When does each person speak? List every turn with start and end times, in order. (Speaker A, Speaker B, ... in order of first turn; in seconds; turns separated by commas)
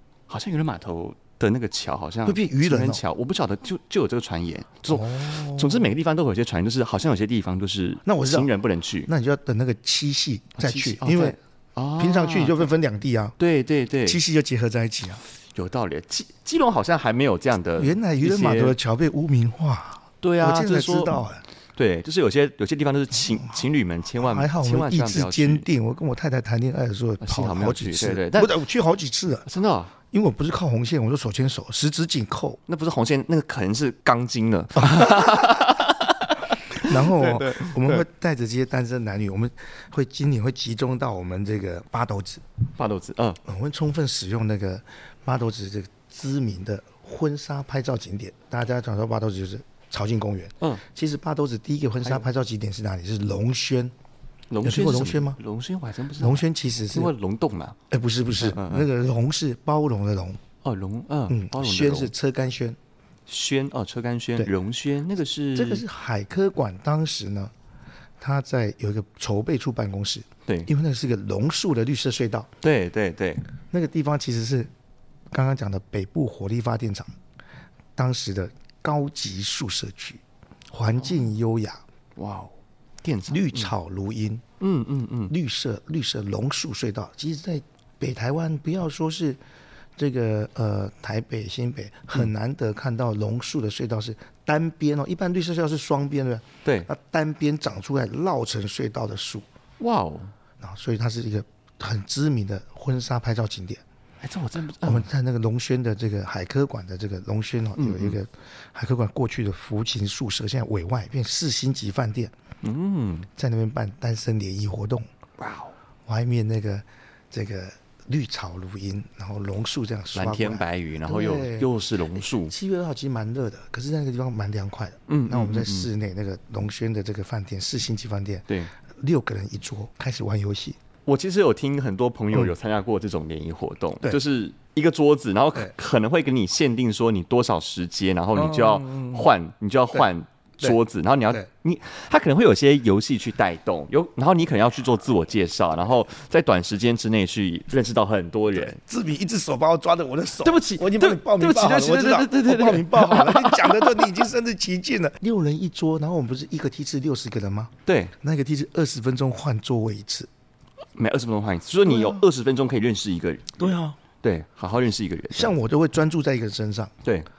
Speaker A: 0.3-9.1, Speaker B: 2.2-3.0, Speaker B: 4.9-5.9, Speaker B: 8.1-8.5, Speaker B: 9.1-11.4, Speaker A: 10.6-12.7, Speaker B: 12.0-13.4, Speaker A: 13.4-14.2, Speaker B: 14.1-15.2, Speaker A: 15.6-18.8, Speaker B: 17.8-21.4, Speaker A: 20.2-21.1, Speaker A: 21.8-25.7, Speaker B: 24.2-29.5, Speaker A: 27.2-28.6, Speaker A: 29.5-29.9, Speaker B: 30.1-32.6, Speaker A: 32.7-38.0, Speaker B: 34.8-35.7, Speaker B: 36.8-42.4, Speaker A: 42.8-43.4, Speaker B: 43.5-53.9, Speaker A: 54.5-57.8, Speaker B: 54.6-55.4, Speaker B: 56.2-57.1, Speaker B: 57.9-60.4, Speaker A: 58.4-58.9, Speaker A: 60.6-62.1, Speaker B: 61.3-62.8, Speaker A: 63.3-65.8, Speaker B: 65.5-67.5, Speaker B: 68.2-72.5, Speaker A: 72.6-73.5, Speaker B: 73.7-74.7, Speaker B: 75.3-77.1, Speaker B: 78.0-81.8, Speaker A: 82.2-83.7, Speaker B: 83.3-84.4, Speaker A: 84.6-85.3, Speaker B: 85.3-89.4, Speaker B: 90.0-99.5, Speaker A: 99.8-100.3, Speaker B: 100.6-103.8, Speaker A: 104.2-105.1, Speaker B: 104.8-112.3, Speaker A: 107.8-108.2, Speaker A: 112.6-113.3, Speaker B: 113.4-115.1, Speaker A: 115.4-115.7, Speaker B: 116.1-128.5, Speaker A: 120.1-122.5, Speaker A: 125.1-125.9, Speaker B: 129.0-130.8, Speaker A: 131.1-148.8, Speaker B: 138.3-139.3, Speaker B: 148.6-160.3, Speaker A: 150.4-154.1, Speaker A: 157.9-158.1, Speaker A: 161.0-165.5, Speaker B: 161.9-162.2, Speaker B: 163.6-164.0, Speaker B: 165.3-166.9